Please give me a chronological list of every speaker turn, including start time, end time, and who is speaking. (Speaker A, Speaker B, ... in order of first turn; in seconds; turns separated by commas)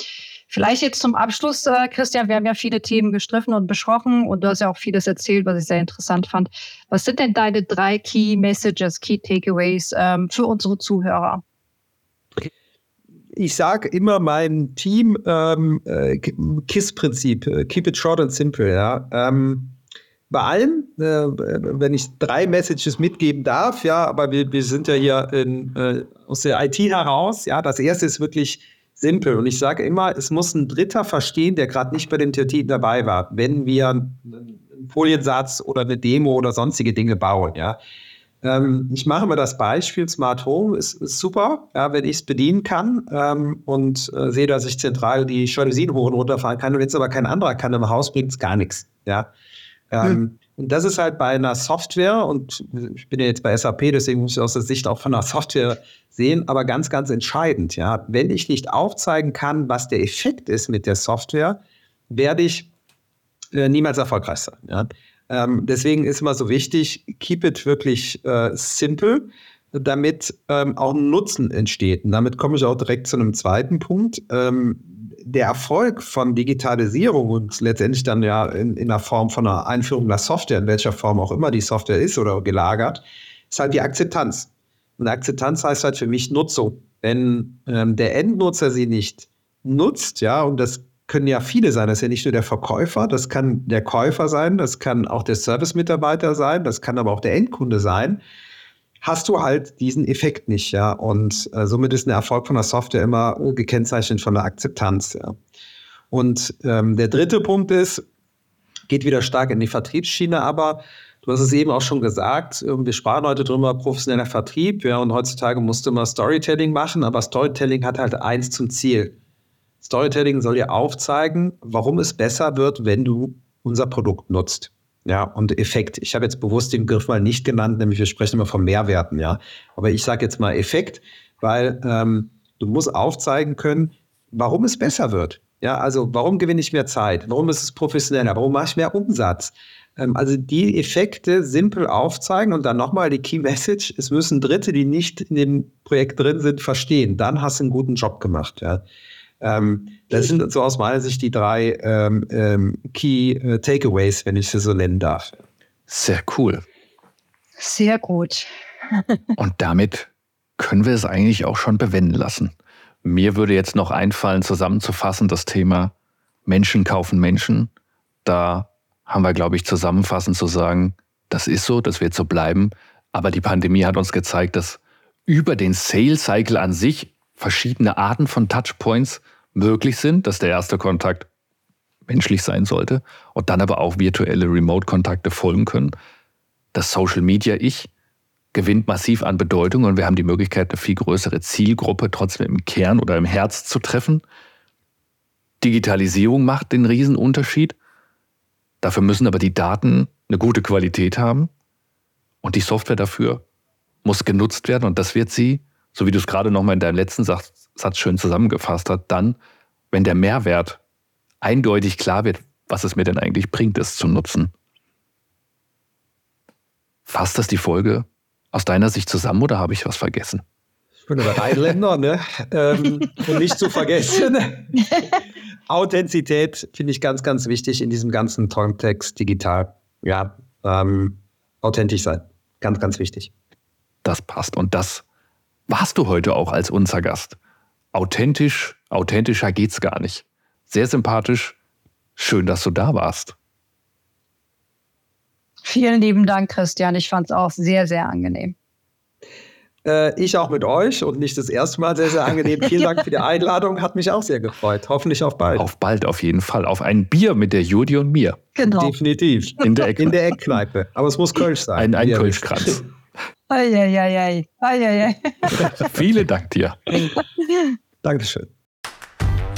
Speaker A: 0.5-11.4, Speaker B: 13.3-19.8, Speaker B: 20.3-37.8, Speaker B: 38.4-49.3, Speaker B: 49.9-62.7, Speaker B: 63.5-98.2, Speaker B: 99.0-105.4, Speaker B: 106.1-108.0, Speaker B: 108.9-119.2, Speaker B: 119.8-148.8, Speaker B: 149.4-155.4, Speaker C: 155.9-156.6, Speaker A: 157.6-158.5, Speaker C: 159.4-162.5, Speaker C: 163.0-165.9, Speaker C: 166.5-167.7, Speaker C: 168.2-181.3, Speaker C: 182.1-185.9, Speaker C: 186.7-187.9, Speaker C: 188.5-194.2, Speaker C: 195.6-197.8, Speaker C: 198.8-201.5, Speaker C: 202.4-203.4, Speaker C: 204.1-209.4, Speaker C: 209.9-210.8, Speaker C: 211.4-214.5, Speaker C: 217.1-220.4, Speaker B: 221.1-225.0, Speaker B: 225.7-233.3, Speaker C: 234.1-235.0, Speaker C: 235.7-237.4, Speaker C: 237.9-241.6, Speaker C: 242.2-243.4, Speaker A: 245.7-248.6, Speaker B: 249.8-255.7, Speaker C: 255.6-258.4, Speaker A: 258.6-258.9, Speaker B: 258.6-262.9, Speaker C: 259.6-260.2, Speaker C: 261.8-262.9, Speaker A: 263.5-265.7, Speaker C: 265.6-267.0, Speaker A: 267.2-267.8, Speaker B: 268.0-268.5